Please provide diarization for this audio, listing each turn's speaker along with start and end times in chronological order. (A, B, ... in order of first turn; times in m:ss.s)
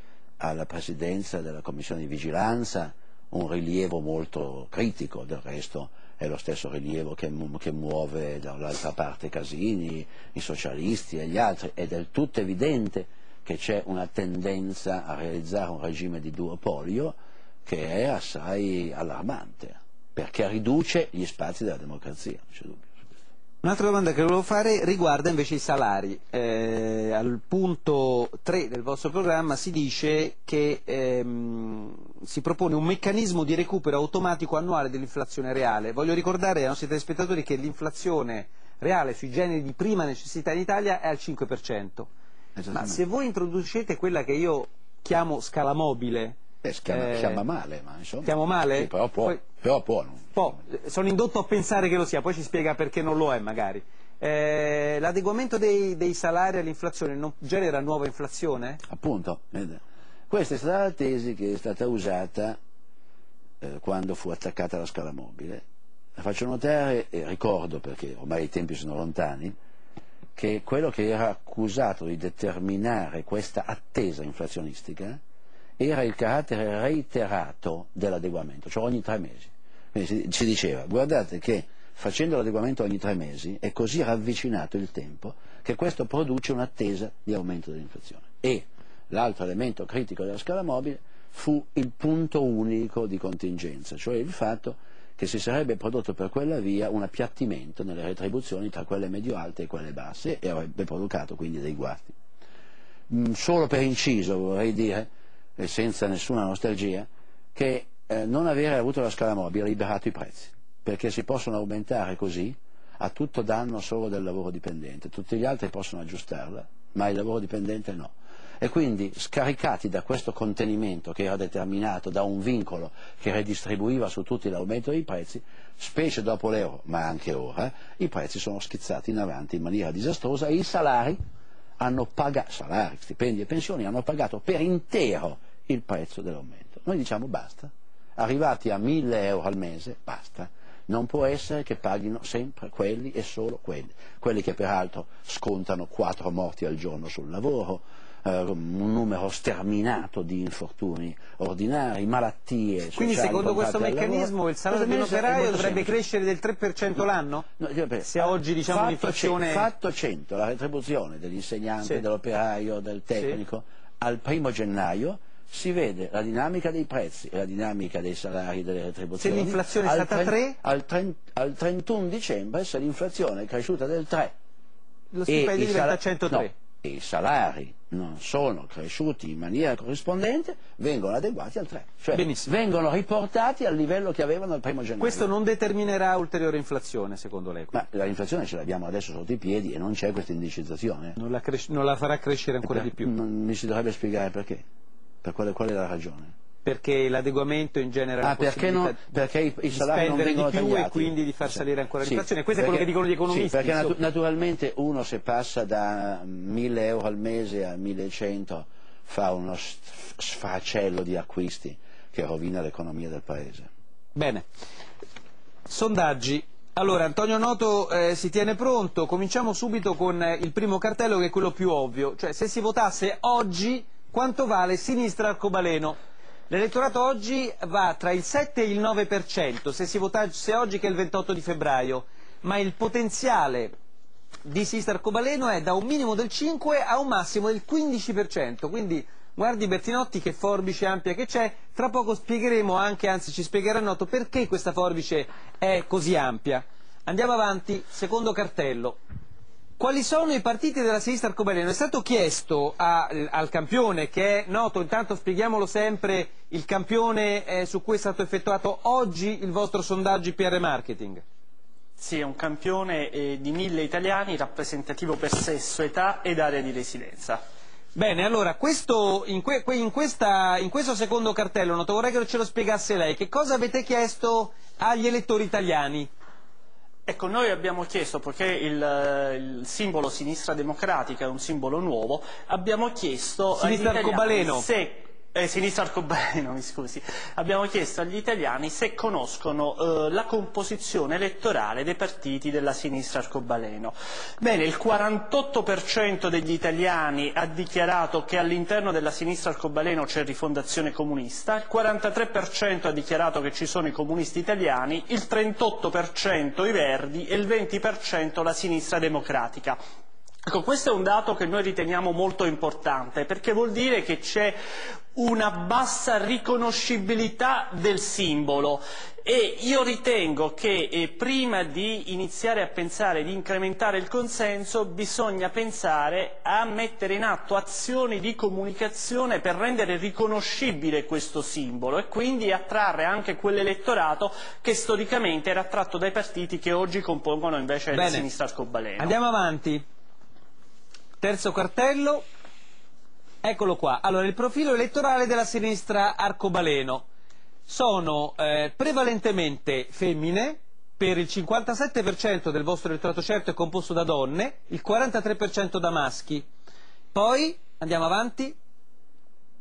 0:00.4-0:23.1 A
0:23.6-0:42.1 B
0:42.6-0:43.0 A
0:42.7-0:47.4 B
0:46.6-0:50.6 A
0:48.2-0:49.4 B
0:50.3-0:58.8 B
0:58.8-1:02.6 A
1:03.6-1:05.6 A
1:06.2-1:09.6 A
1:10.4-1:15.2 A
1:15.8-1:42.2 A
1:43.1-2:11.2 A
2:11.8-2:36.0 A
2:33.0-2:37.5 B
2:37.6-2:54.3 A
2:38.1-2:39.7 B
2:49.2-2:50.6 B
2:55.1-2:56.5 B
2:55.3-3:05.3 A
3:02.1-3:02.5 B
3:05.0-3:07.8 B
3:07.7-3:11.2 A
3:11.2-3:13.1 B
3:12.6-3:14.6 A
3:15.2-3:16.3 A
3:16.6-3:19.0 B
3:18.2-3:33.7 A
3:19.7-3:24.0 B
3:34.2-3:34.4 B
3:35.7-3:46.0 B
3:46.5-3:53.7 B
3:54.4-4:09.0 B
4:09.8-4:21.2 B
4:22.0-4:27.4 C
4:28.0-4:36.1 B
4:37.1-5:09.8 C
4:43.6-4:44.7 B
5:10.5-5:14.6 C
5:15.2-5:39.2 C
5:37.9-5:38.3 B
5:39.0-5:39.8 B
5:41.2-5:42.3 B
5:43.4-5:47.1 B
5:47.7-5:56.5 B
5:57.1-5:58.6 B